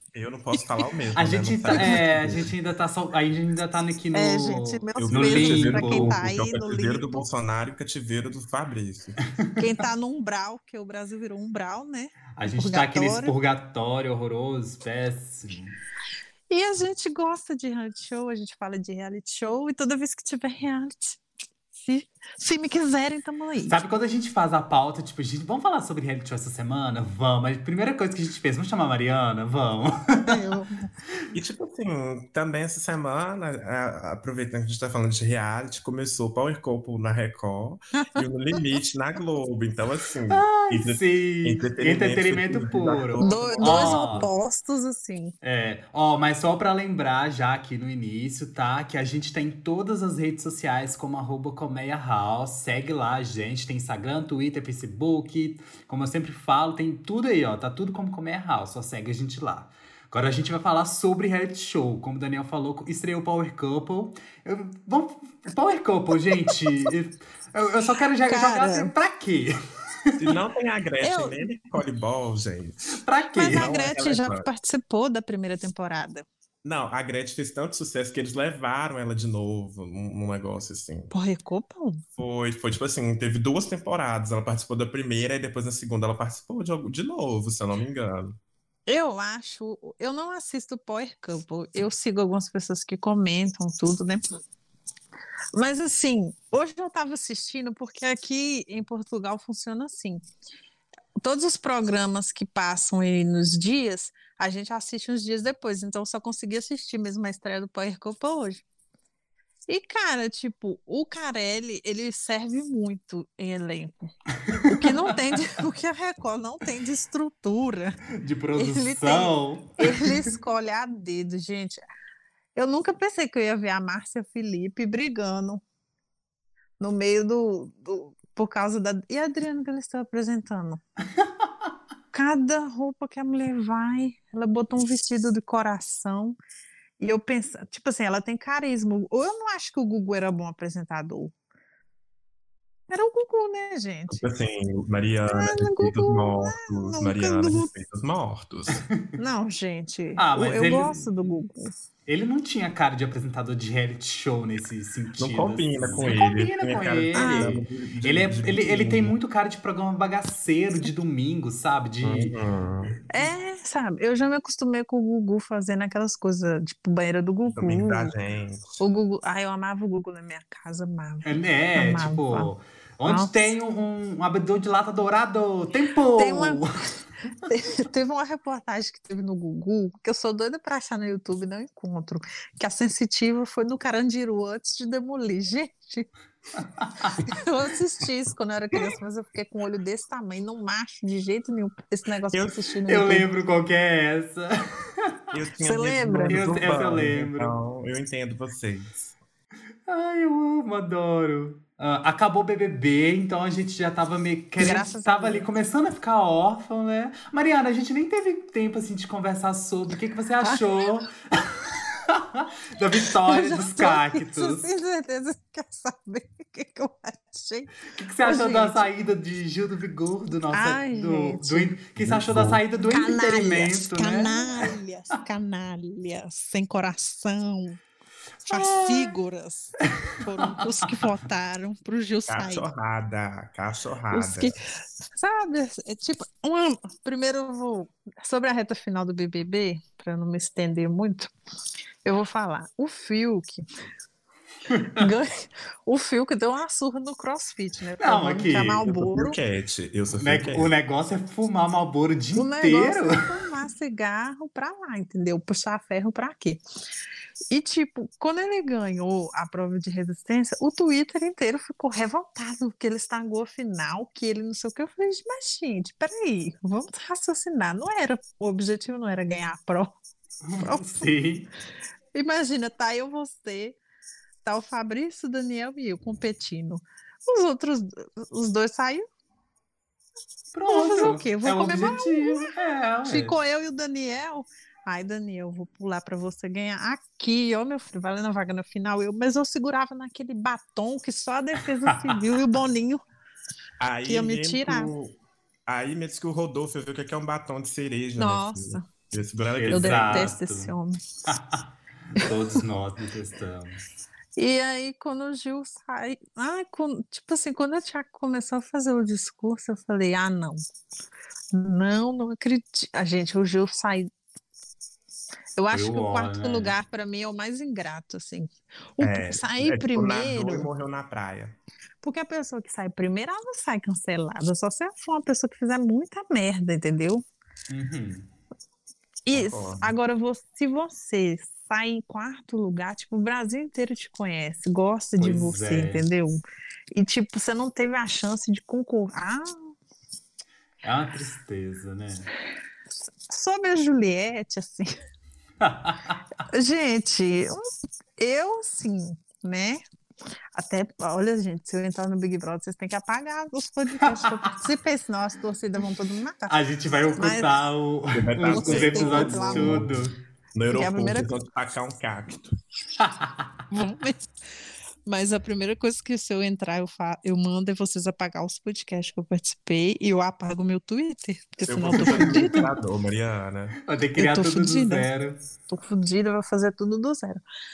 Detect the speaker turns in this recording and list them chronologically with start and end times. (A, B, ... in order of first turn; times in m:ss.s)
0:00.1-0:02.5 A
0:01.2-0:06.1 B
0:01.7-0:02.0 C
0:04.1-0:07.3 C
0:05.0-0:09.2 A
0:09.6-0:13.4 C
0:12.4-0:15.8 B
0:16.5-0:21.2 C
0:21.8-0:23.8 C
0:23.7-0:30.4 B
0:30.3-0:30.9 C
0:31.3-0:44.3 A
0:40.3-0:44.3 B
0:43.2-0:45.3 C
0:45.4-1:09.5 B
1:08.3-1:08.9 C
1:10.2-1:13.0 A
1:11.0-1:11.6 C
1:12.9-1:13.7 B
1:13.4-1:16.3 C
1:13.5-1:14.5 A
1:16.6-1:21.1 A
1:21.1-1:22.0 C
1:22.2-1:28.4 A
1:28.9-1:34.2 C
1:35.6-1:40.2 C
1:41.2-1:48.6 C
1:49.7-1:58.0 C
1:54.4-1:55.2 B
1:58.2-2:00.3 B
1:58.6-2:01.8 C
2:02.6-2:05.6 C
2:06.8-2:10.8 C
2:12.1-2:16.4 C
2:17.0-2:21.3 C
2:22.9-2:24.2 C
2:24.1-2:28.8 A
2:25.3-2:27.7 C
2:28.7-2:29.0 B
2:29.2-2:31.7 C
2:30.2-2:31.0 B
2:32.1-2:42.4 B
2:35.2-2:39.2 A
2:37.1-2:37.6 C
2:42.0-2:43.0 A
2:43.1-2:48.1 C
2:47.4-2:48.8 A
2:48.8-2:52.5 C
2:51.2-2:56.7 B
2:53.1-2:53.5 C
2:56.2-2:56.7 C
2:57.5-3:06.1 C
3:06.6-3:07.3 B
3:07.3-3:13.3 C
3:12.9-3:15.1 B
3:15.3-3:19.2 A
3:15.6-3:16.4 C
3:16.3-3:17.5 B
3:19.9-3:34.6 B
3:24.6-3:25.4 C
3:33.0-3:38.9 C
3:37.9-3:44.7 B
3:40.5-3:41.8 C
3:42.0-3:42.6 A
3:42.9-3:47.8 C
3:48.4-3:52.7 C
3:48.5-3:49.2 B
3:50.4-3:51.0 B
3:52.3-3:54.5 A
3:54.1-4:01.3 C
4:02.0-4:03.6 C
4:04.7-4:05.1 B
4:05.0-4:09.4 C
4:08.0-4:08.8 B
4:08.8-4:10.7 A
4:10.2-4:13.2 B
4:12.4-4:16.6 C
4:17.5-4:29.9 C
4:30.4-4:31.5 B
4:30.6-4:31.1 C
4:32.2-4:33.8 C
4:34.4-4:39.1 C
4:40.5-4:43.4 B
4:40.7-4:42.5 C
4:43.1-4:53.0 C
4:51.9-4:52.1 B
4:53.8-4:55.2 A
4:54.1-4:54.9 C
4:55.7-5:00.3 A
4:58.2-4:58.8 C
4:59.6-5:00.7 B
4:59.7-5:01.0 C
5:01.3-5:03.8 B
5:04.4-5:10.6 C
5:11.5-5:14.1 C
5:15.6-5:20.7 C
5:15.7-5:16.7 B
5:19.0-5:21.6 A
5:22.0-5:27.2 C
5:27.7-5:28.3 B
5:29.3-5:36.4 C
5:29.3-5:29.9 A
5:35.2-5:36.0 B
5:37.0-5:39.8 C
5:40.8-5:42.3 B
5:43.3-5:44.9 C
5:45.6-5:46.2 B
5:46.5-5:47.6 C
5:48.2-5:49.8 C
5:50.5-5:56.6 C
5:54.2-5:54.6 B
5:56.5-6:00.1 B
5:57.2-5:57.5 C
5:58.1-6:02.6 A
5:58.4-5:59.9 C
6:00.7-6:01.3 C
6:03.0-6:03.5 B
6:03.7-6:04.3 C
6:05.1-6:12.7 C
6:11.7-6:13.8 A
6:11.9-6:12.4 B
6:13.9-6:15.4 B
6:14.2-6:15.1 C
6:15.7-6:17.4 C